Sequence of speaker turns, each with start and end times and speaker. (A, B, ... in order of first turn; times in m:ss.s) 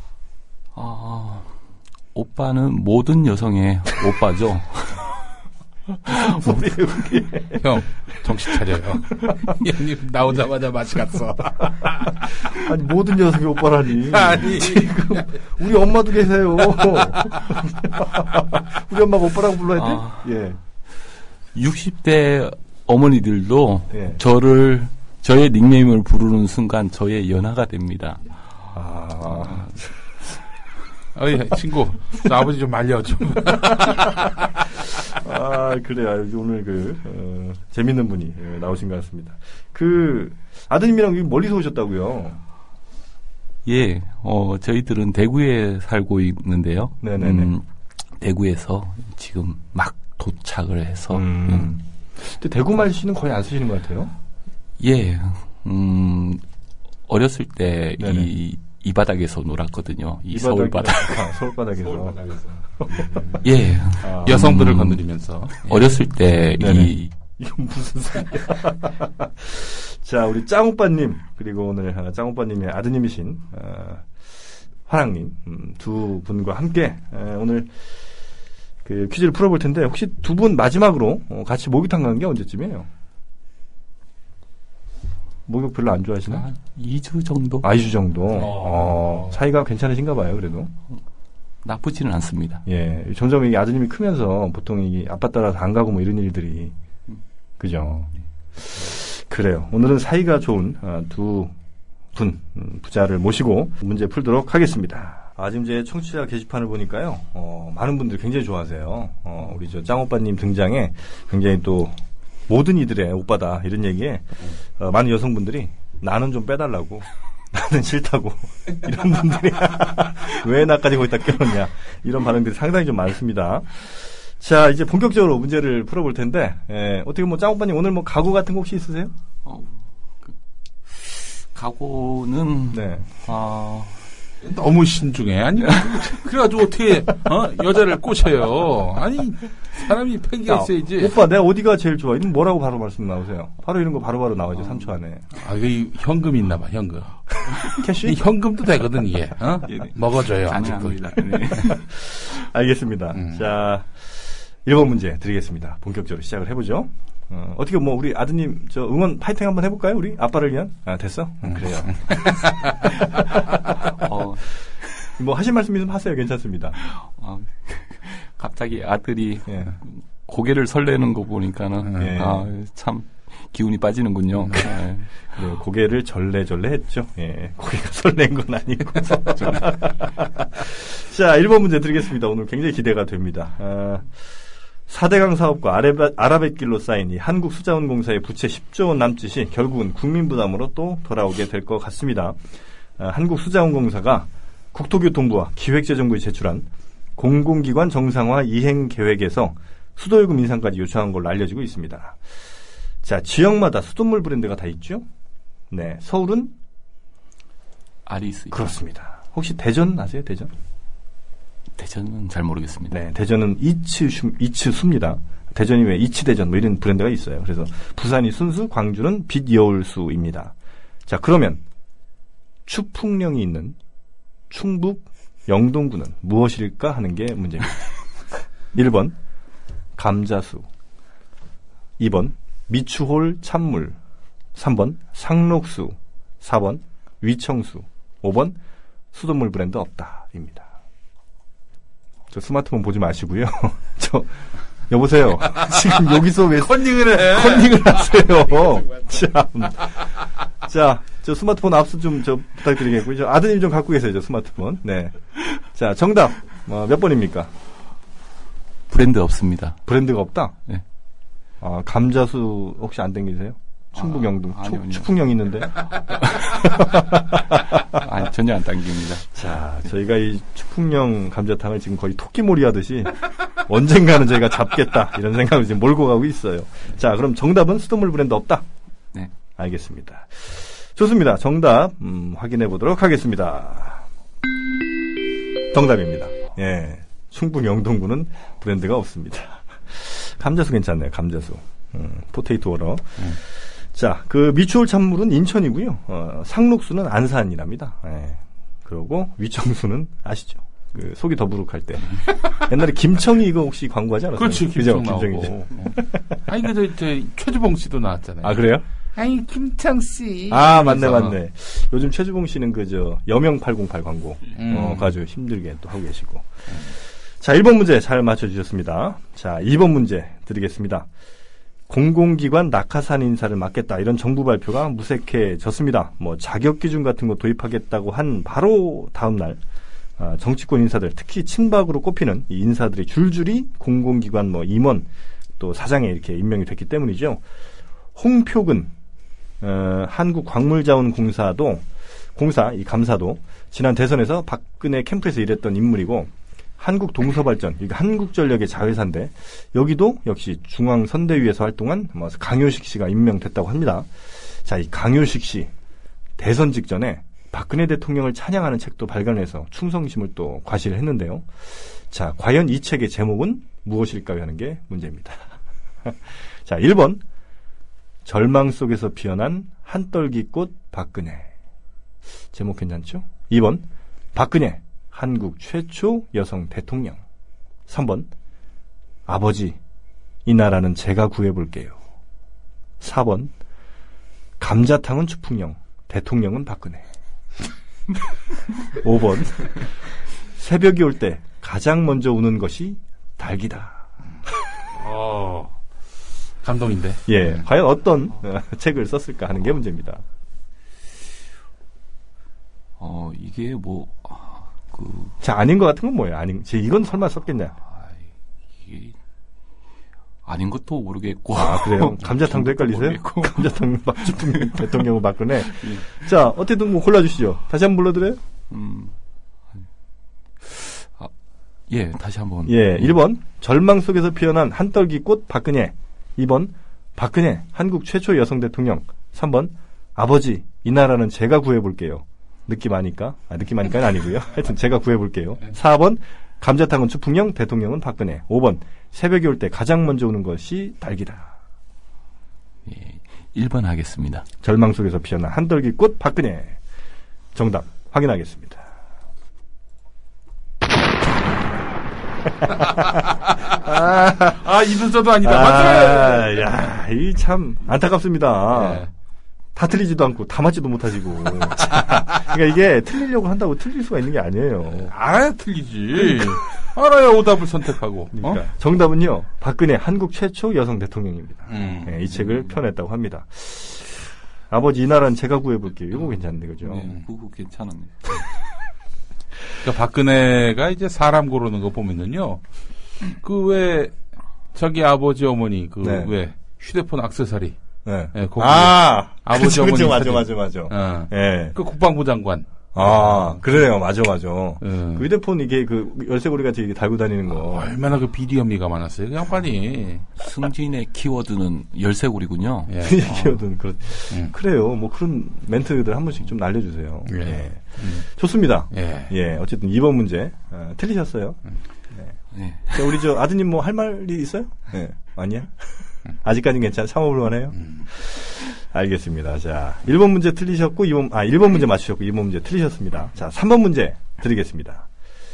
0:00.8-0:01.6 A
0:02.1-0:05.2 A
0:06.1-0:06.6 A
0:06.1-0:07.6 B
0:07.6-0:12.5 C
0:12.4-0:20.6 B
0:14.1-0:15.2 C
0:19.8-0:20.3 A
0:21.5-0:28.2 A
0:23.9-0:24.2 B
0:28.7-0:30.0 B
0:31.2-0:34.4 C
0:35.1-0:42.4 B
0:43.6-0:47.6 A
0:47.0-0:47.5 B
0:48.2-0:51.7 A
0:51.1-0:54.1 B
0:54.8-0:56.4 A
0:57.1-1:01.3 A
0:58.0-0:58.3 B
1:00.3-1:03.4 B
1:03.4-1:05.0 A
1:04.0-1:04.4 B
1:04.2-1:06.0 C
1:05.6-1:07.1 A
1:06.6-1:14.3 B
1:14.9-1:17.7 B
1:18.8-1:22.9 B
1:25.5-1:26.5 B
1:26.3-1:27.7 A
1:27.6-1:30.7 B
1:28.4-1:29.3 C
1:31.6-1:32.6 A
1:32.7-1:36.7 B
1:37.6-1:38.1 B
1:38.7-1:41.5 B
1:42.2-2:09.1 B
2:09.4-2:10.4 A
2:10.9-2:14.1 A
2:12.7-2:13.1 B
2:14.4-2:21.1 C
2:15.6-2:16.1 A
2:20.5-2:25.3 B
2:25.3-2:31.7 C
2:27.7-2:28.2 B
2:29.6-2:31.9 A
2:31.7-2:42.3 B
2:41.5-2:42.6 C
2:43.9-2:44.5 A
2:45.1-2:46.8 B
2:46.8-2:55.2 A
2:49.5-2:49.8 B
2:52.0-2:52.5 B
2:55.3-3:04.3 B
2:59.1-2:59.8 A
3:04.9-3:12.4 B
3:13.0-3:22.2 B
3:23.0-3:25.1 B
3:25.7-3:26.5 B
3:28.1-3:28.8 A
3:28.5-3:30.5 B
3:31.8-3:33.0 A
3:32.9-3:40.5 B
3:41.1-3:41.6 B
3:42.7-3:43.8 B
3:44.5-3:47.8 B
3:48.7-3:49.2 B
3:50.0-3:50.7 B
3:52.0-3:54.0 B
3:54.6-3:58.6 B
3:59.1-4:00.7 B
4:02.3-4:10.1 B
4:06.0-4:08.4 C
4:10.6-4:17.5 B
4:18.9-4:19.8 A
4:19.9-4:20.6 B
4:21.6-4:27.6 B
4:24.0-4:25.1 A
4:25.8-4:26.9 A
4:27.9-4:29.3 A
4:29.3-4:38.7 B
4:39.6-4:44.0 B
4:45.7-5:06.4 B
5:04.4-5:08.6 C
5:08.4-5:08.8 B
5:09.2-5:11.4 C
5:10.5-5:21.1 B
5:14.6-5:15.2 C
5:21.9-5:29.6 B
5:30.2-5:37.4 B
5:38.2-5:38.9 B
5:39.6-5:41.8 B
5:42.4-5:54.1 B
5:54.6-5:55.7 B
5:56.4-6:05.5 B
6:06.0-6:07.2 B
6:08.2-6:11.5 B
6:12.5-6:17.2 B
6:17.9-6:18.3 B
6:19.3-6:19.8 B
6:20.4-6:22.0 B
6:23.0-6:23.5 B
6:24.6-6:27.0 B
6:28.9-6:30.0 B
6:30.6-6:34.0 B
6:34.9-6:35.7 C
6:36.6-6:37.3 C
6:37.3-6:40.2 B
6:43.0-6:45.4 A
6:45.4-6:47.8 B
6:47.9-6:48.2 A
6:48.8-6:49.2 A
6:50.4-6:55.0 A
6:51.6-6:58.4 B
6:55.7-6:56.1 A
6:58.7-6:59.1 A
7:00.6-7:01.3 A
7:01.9-7:03.1 A
7:02.7-7:21.5 B
7:22.9-7:24.5 A
7:24.6-7:26.8 B
7:27.6-7:28.9 B
7:33.9-7:34.6 B
7:34.5-7:36.6 C
7:35.4-7:39.1 B
7:38.7-7:39.1 C
7:39.8-7:45.1 B
7:45.0-7:48.6 C
7:46.2-7:46.5 B
7:48.3-7:57.1 B
7:51.7-7:52.2 C
7:56.8-7:58.4 A
7:59.8-8:02.6 C
8:03.3-8:04.2 C
8:04.7-8:07.8 C
8:06.0-8:06.4 B
8:08.0-8:11.8 B
8:08.3-8:13.8 C
8:12.9-8:17.9 B
8:14.8-8:15.2 C
8:17.6-8:20.3 C
8:20.4-8:22.9 A
8:22.9-8:23.6 C
8:23.0-8:31.6 B
8:27.3-8:28.3 C
8:28.9-8:29.3 C
8:32.5-8:33.2 A
8:32.9-8:45.1 B